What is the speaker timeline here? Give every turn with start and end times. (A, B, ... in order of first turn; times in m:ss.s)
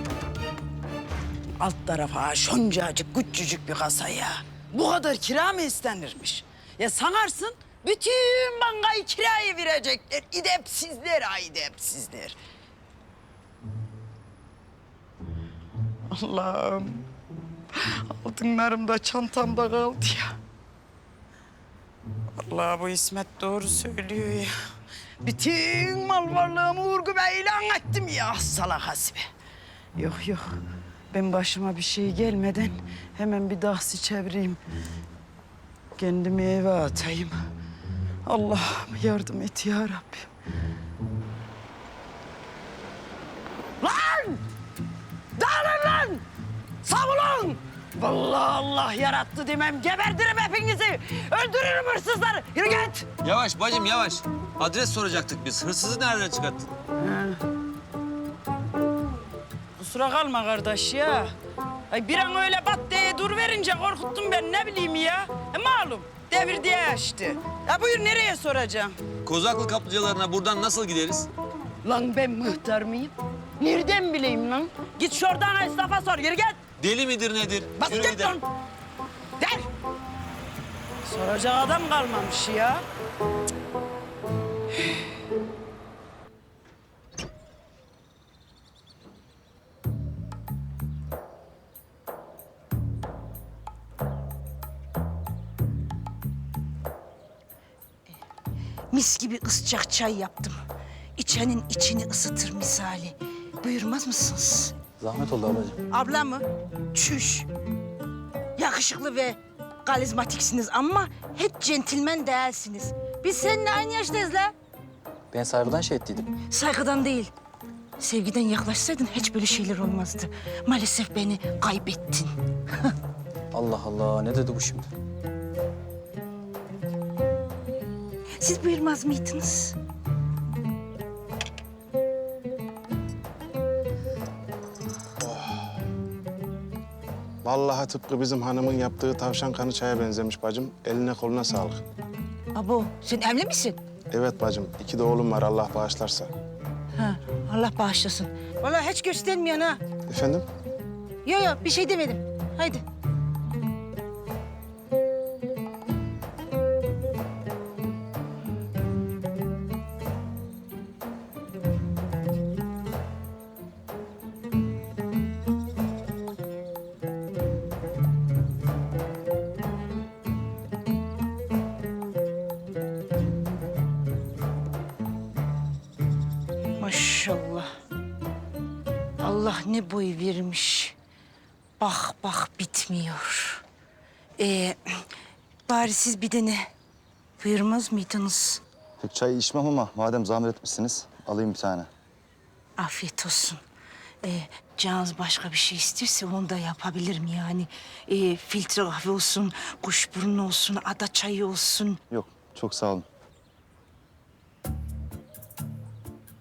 0:01.6-0:12.4 A
0:16.1-0:17.1 A
0:17.7-0:20.4 A
0:22.4-0:24.5 A
0:25.2-0:29.3 A
0:30.0-0:30.6 A
0:31.1-0:34.6 A
0:36.0-0:37.4 A
0:38.2-0:40.3 A
0:43.8-0:44.4 A
0:45.4-0:46.2 A
0:46.8-0:53.1 A
0:53.2-0:56.7 B
0:57.0-0:57.4 A
0:59.8-1:01.3 A
1:01.9-1:09.0 A
1:09.2-1:11.3 B
1:11.8-1:16.6 A
1:16.8-1:18.4 B
1:17.8-1:18.4 A
1:19.4-1:19.7 A
1:21.0-1:22.8 A
1:38.9-1:40.6 C
1:41.2-1:44.8 C
1:45.0-1:45.8 D
1:45.9-1:47.5 C
1:48.6-1:54.5 C
1:55.3-1:56.3 D
1:56.5-1:57.3 C
1:58.0-2:02.3 C
2:03.5-2:04.9 D
2:08.4-2:09.8 C
2:15.2-2:15.7 E
2:17.4-2:21.8 E
2:22.5-2:23.8 C
2:24.1-2:26.3 E
2:27.0-2:29.8 C
2:30.1-2:30.4 E
2:31.2-2:32.8 C
2:56.8-2:57.7 C
2:59.2-3:00.9 C
3:01.8-3:03.6 C
3:04.4-3:05.0 C
3:05.7-3:06.7 C
3:07.4-3:08.6 C
3:09.0-3:11.9 F
3:12.8-3:13.6 C
3:14.2-3:22.0 C
3:22.1-3:23.1 F